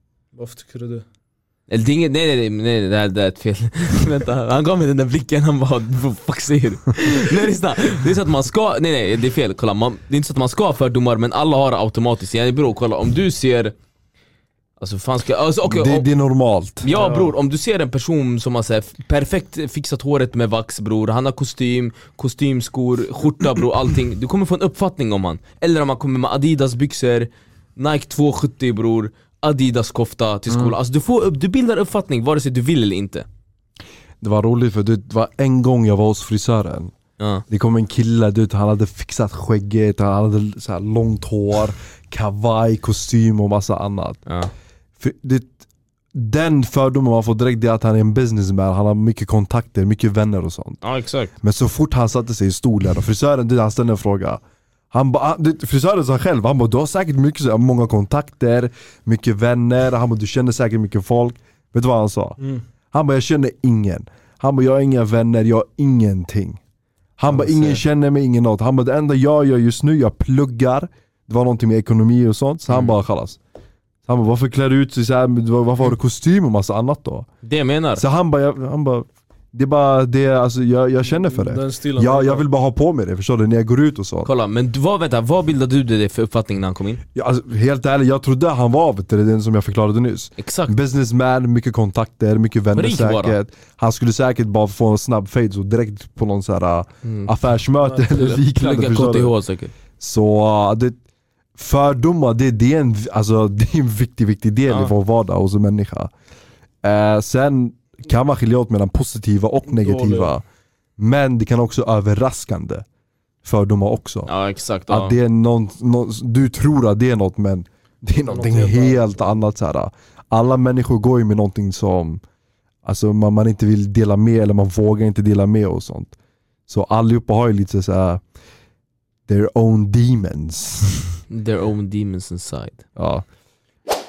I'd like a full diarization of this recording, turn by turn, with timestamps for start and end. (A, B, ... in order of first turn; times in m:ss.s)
0:00.3-0:01.0 A
0:01.7-0:13.7 B
0:14.8-0:16.1 B
0:15.6-0:16.9 C
0:16.8-0:33.2 B
0:16.9-0:17.4 A
0:34.2-0:36.9 C
0:37.2-0:37.4 B
0:37.5-0:44.2 C
0:44.3-0:44.5 B
0:45.0-0:45.5 C
0:46.1-0:50.8 C
0:50.8-0:51.3 B
0:51.4-1:02.4 C
1:02.9-1:06.6 C
1:07.2-1:13.4 C
1:07.4-1:07.8 B
1:12.7-1:12.9 B
1:14.0-1:17.3 C
1:17.4-1:18.0 B
1:18.0-1:24.3 C
1:21.0-1:22.4 A
1:24.2-1:27.0 B
1:27.1-1:39.3 C
1:30.4-1:30.7 B
1:32.8-1:33.4 B
1:37.0-1:37.3 B
1:38.0-1:39.7 B
1:40.0-1:41.0 C
1:41.6-1:46.1 C
1:46.8-1:50.4 C
1:49.7-1:50.3 A
1:51.0-1:52.8 C
1:53.4-1:54.3 C
1:54.3-1:55.1 B
1:54.9-2:02.2 C
1:58.2-1:59.4 A
2:02.8-2:06.1 C
2:06.7-2:08.2 C
2:09.3-2:11.2 C
2:11.3-2:12.8 B
2:13.0-2:13.2 C